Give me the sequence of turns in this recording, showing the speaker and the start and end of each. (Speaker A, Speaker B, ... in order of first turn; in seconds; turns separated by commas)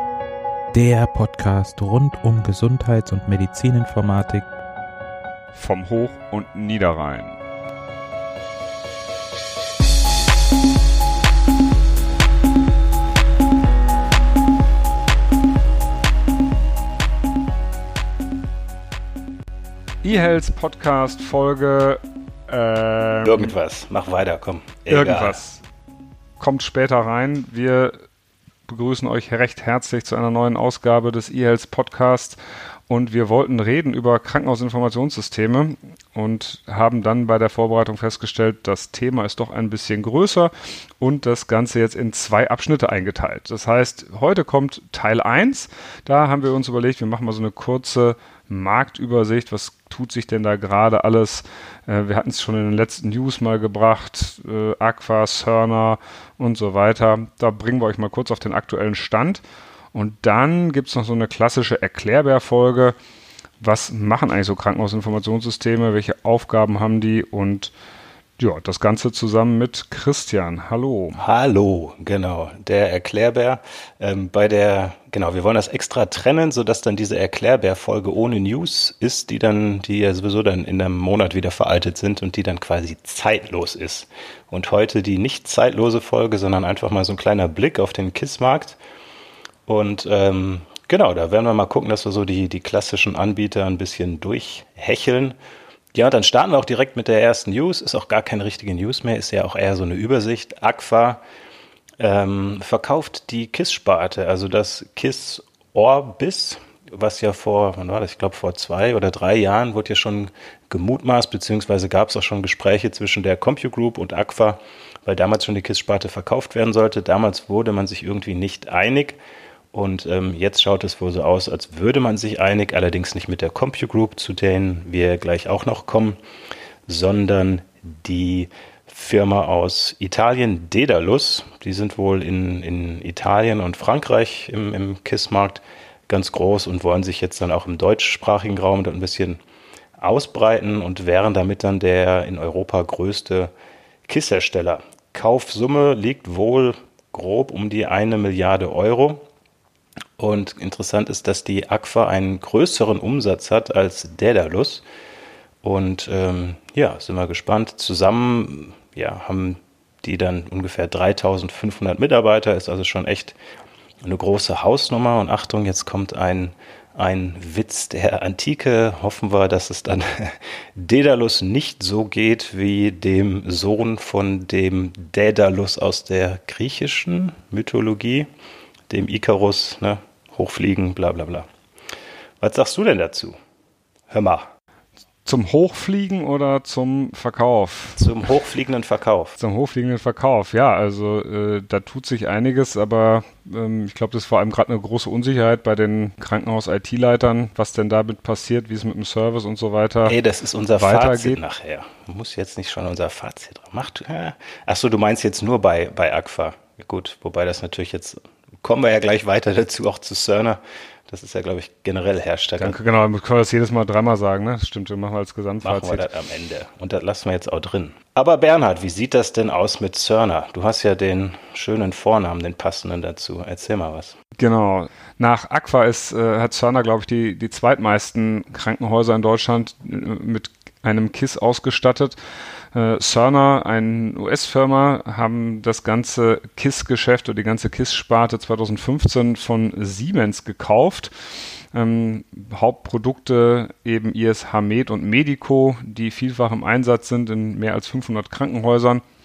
Speaker A: 0.7-4.5, Speaker B: 5.5-7.3, Speaker B: 20.0-23.5, Speaker C: 23.2-25.4, Speaker B: 24.9-25.6, Speaker B: 26.4-27.9, Speaker B: 28.7-59.4, Speaker B: 59.9-62.9, Speaker B: 63.6-67.7, Speaker B: 68.4-71.2, Speaker C: 71.2-88.8, Speaker C: 89.7-95.3, Speaker C: 95.9-101.2, Speaker C: 102.0-119.2, Speaker C: 119.7-126.2, Speaker C: 126.9-139.4, Speaker C: 140.0-143.5, Speaker C: 144.1-149.2, Speaker C: 150.2-154.8, Speaker C: 155.6-163.4, Speaker C: 164.0-178.3, Speaker C: 178.9-181.5, Speaker C: 182.4-183.3, Speaker C: 184.1-184.5, Speaker B: 185.2-188.2, Speaker C: 188.0-189.4, Speaker B: 189.4-200.2, Speaker C: 200.1-212.8, Speaker B: 200.8-201.4, Speaker B: 212.6-216.1, Speaker C: 215.6-224.2, Speaker B: 224.4-232.2, Speaker B: 232.7-241.1, Speaker B: 241.7-249.0